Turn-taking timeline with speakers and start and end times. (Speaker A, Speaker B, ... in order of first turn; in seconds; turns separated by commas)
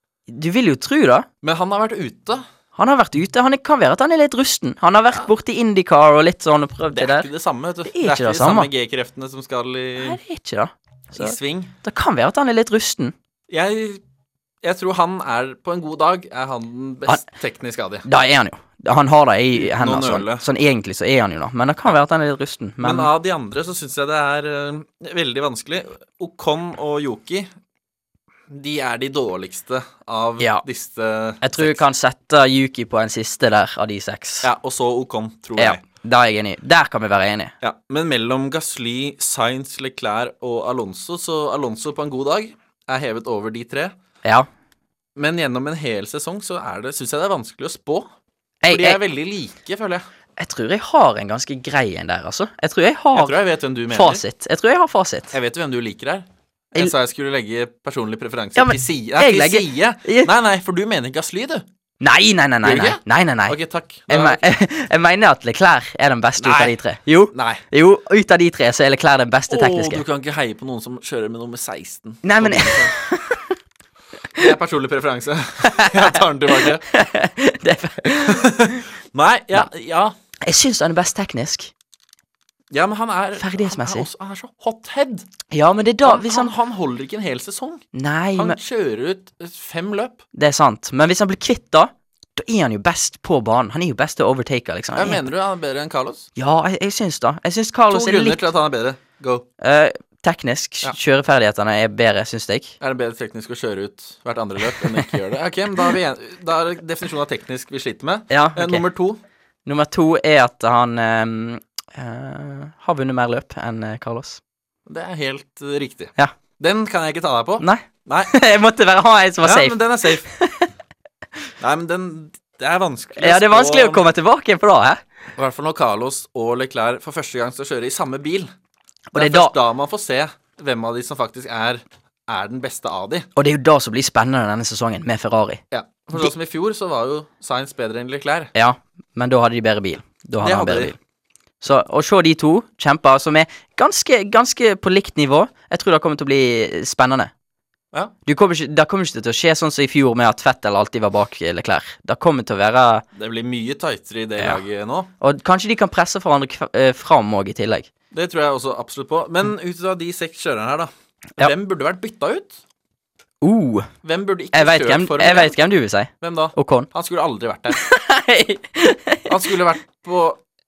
Speaker A: 0.3-1.3, Speaker B: 1.4-2.5, Speaker A: 2.8-7.3, Speaker B: 6.9-10.2, Speaker A: 7.9-8.7, Speaker A: 10.0-13.1, Speaker B: 11.1-11.7, Speaker B: 13.5-14.0, Speaker B: 14.6-18.1, Speaker A: 18.1-23.1, Speaker B: 19.5-20.4, Speaker B: 22.8-27.5, Speaker B: 28.5-31.8, Speaker A: 31.4-34.5, Speaker B: 34.4-35.8, Speaker A: 35.6-37.5, Speaker B: 37.6-43.9, Speaker B: 45.2-48.1, Speaker A: 48.6-49.0, Speaker B: 48.7-50.1, Speaker A: 50.4-55.3, Speaker B: 53.1-54.2, Speaker B: 55.3-61.6, Speaker A: 58.6-60.3, Speaker A: 62.0-63.6, Speaker B: 62.6-64.5, Speaker A: 64.1-70.0, Speaker B: 66.4-66.8, Speaker B: 67.3-67.6, Speaker B: 69.5-73.0, Speaker A: 72.2-73.5, Speaker B: 74.4-76.8, Speaker A: 75.6-78.8, Speaker B: 78.1-80.1, Speaker A: 80.5-81.7, Speaker B: 82.7-85.3, Speaker A: 83.4-84.1, Speaker A: 85.5-86.5, Speaker B: 86.0-90.2, Speaker A: 87.9-88.6, Speaker A: 90.3-95.2, Speaker B: 94.9-96.3, Speaker A: 96.4-98.4, Speaker B: 97.9-99.5, Speaker A: 99.6-102.8, Speaker B: 102.8-109.2, Speaker A: 108.3-108.9, Speaker A: 109.7-114.4, Speaker B: 114.9-118.4, Speaker A: 117.6-120.7, Speaker B: 119.4-120.3, Speaker B: 121.6-124.0, Speaker A: 123.2-125.0, Speaker B: 125.4-128.5, Speaker A: 129.1-129.5, Speaker B: 129.1-133.3, Speaker A: 133.4-135.6, Speaker B: 135.7-138.5, Speaker A: 138.6-141.0, Speaker B: 140.4-141.0, Speaker A: 141.6-147.3, Speaker A: 148.3-153.0, Speaker B: 153.2-155.1, Speaker A: 155.2-157.9, Speaker B: 158.1-162.6, Speaker A: 163.4-163.9, Speaker B: 164.0-165.6, Speaker A: 164.5-166.9, Speaker B: 166.2-167.8, Speaker A: 167.7-169.3, Speaker B: 169.3-170.4